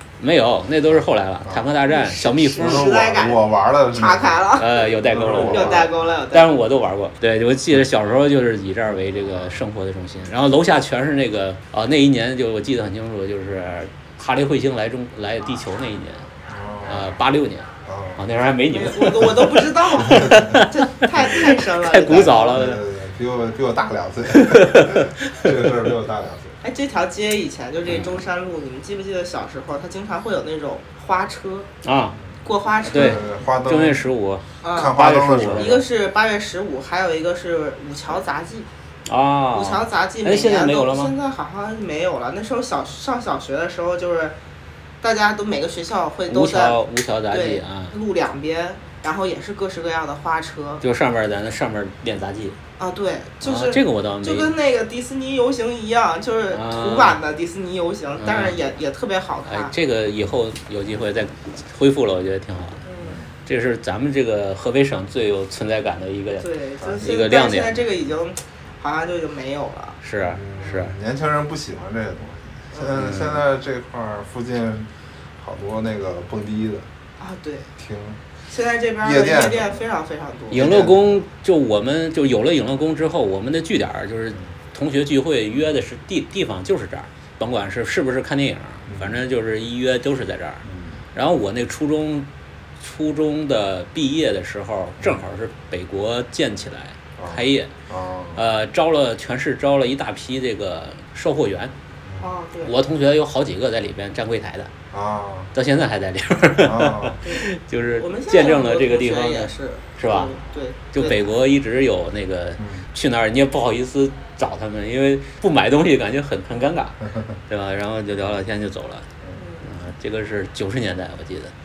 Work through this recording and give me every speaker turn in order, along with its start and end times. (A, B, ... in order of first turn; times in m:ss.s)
0:00.2-0:02.9 A
0:01.9-0:06.5 B
0:02.4-0:05.9 C
0:04.6-0:16.3 A
0:16.5-0:17.1 C
0:16.8-0:22.8 A
0:17.8-0:18.2 C
0:18.7-0:22.8 B
0:20.0-0:20.6 C
0:21.5-0:26.6 C
0:24.3-0:25.5 A
0:26.6-0:31.7 B
0:27.9-0:28.2 A
0:31.8-0:32.2 A
0:32.4-0:33.2 B
0:32.8-0:35.8 A
0:32.9-0:34.0 C
0:34.6-0:35.0 B
0:34.7-0:35.8 C
0:35.6-0:38.7 B
0:39.0-0:41.1 A
0:39.5-0:44.3 B
0:45.0-0:50.8 B
0:46.3-0:48.0 A
0:50.8-0:52.6 A
0:52.8-0:59.7 B
0:53.4-0:54.5 A
0:56.5-0:57.2 A
0:58.2-0:58.6 A
0:59.4-1:02.8 A
1:02.8-1:03.2 B
1:03.4-1:07.8 A
1:06.4-1:10.0 B
1:06.8-1:07.1 C
1:10.0-1:10.9 A
1:10.2-1:16.9 C
1:12.9-1:13.4 A
1:17.2-1:17.7 B
1:17.8-1:18.2 C
1:18.5-1:20.8 B
1:19.0-1:19.8 C
1:20.5-1:32.3 A
1:20.5-1:21.2 C
1:28.9-1:29.2 C
1:30.6-1:31.0 C
1:32.8-1:37.7 A
1:37.2-1:38.4 C
1:38.3-1:41.7 A
1:42.2-1:42.7 B
1:42.6-1:44.7 A
1:44.9-1:45.5 C
1:45.5-1:50.3 A
1:46.6-1:47.2 C
1:48.0-1:51.3 B
1:50.9-1:59.1 A
1:52.6-1:52.8 C
1:59.4-1:59.6 B
1:59.6-2:01.5 A